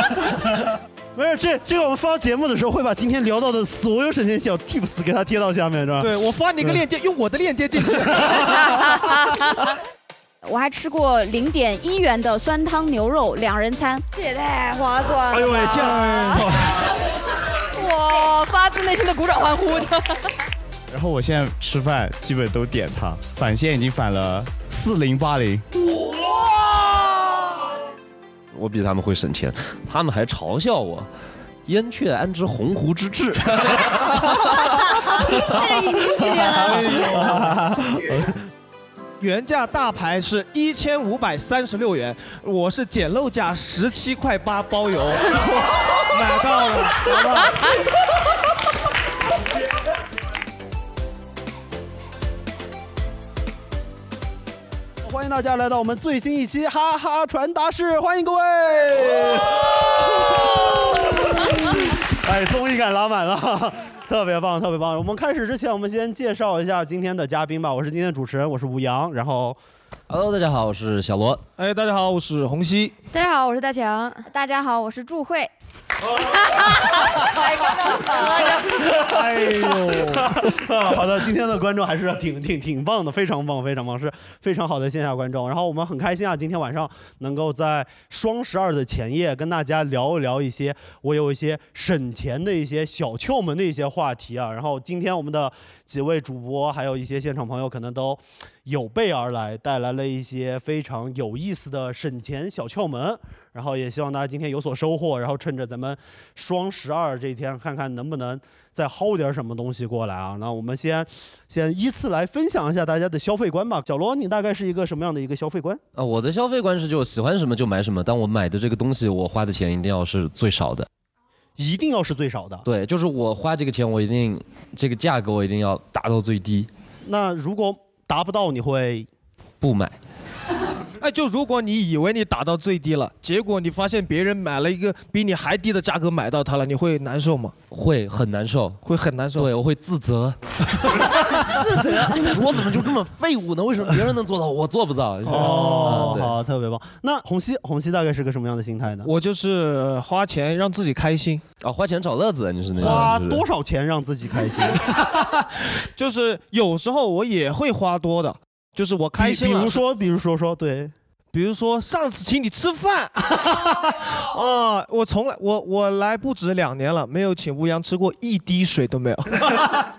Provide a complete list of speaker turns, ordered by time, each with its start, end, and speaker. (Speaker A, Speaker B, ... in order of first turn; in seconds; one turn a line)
Speaker A: 1.1-6.8
Speaker B: 6.0-8.5
Speaker A: 8.1-8.9
Speaker C: 8.7-9.0
Speaker D: 10.4-14.0
Speaker C: 14.2-16.5
Speaker A: 15.3-16.9
Speaker C: 17.7-20.2
Speaker E: 20.9-25.6
Speaker F: 28.5-31.1
Speaker F: 31.6-34.5
Speaker A: 35.5-38.3
Speaker B: 36.2-37.6
Speaker B: 39.2-47.2
Speaker A: 46.9-47.7
Speaker A: 55.0-69.6
Speaker F: 70.1-71.4
Speaker B: 71.6-72.9
Speaker C: 73.1-74.3
Speaker D: 74.3-75.5
Speaker D: 76.5-78.7
Speaker A: 78.9-115.8
Speaker B: 79.0-80.3
Speaker F: 115.9-120.9
Speaker A: 121.6-122.7
Speaker F: 122.6-126.7
Speaker A: 127.0-129.1
Speaker F: 129.6-130.0
Speaker B: 131.0-137.5
Speaker F: 137.7-138.8
Speaker B: 138.8-139.5
Speaker F: 139.3-140.4
Speaker F: 142.1-146.4
Speaker B: 145.3-146.2
Speaker A: 145.3-149.1
Speaker B: 149.0-151.4
Speaker F: 151.6-153.4
Speaker A: 152.8-155.3
Speaker B: 152.8-153.1
Speaker B: 155.9-159.8
Speaker A: 159.2-160.9
Speaker B: 161.3-169.5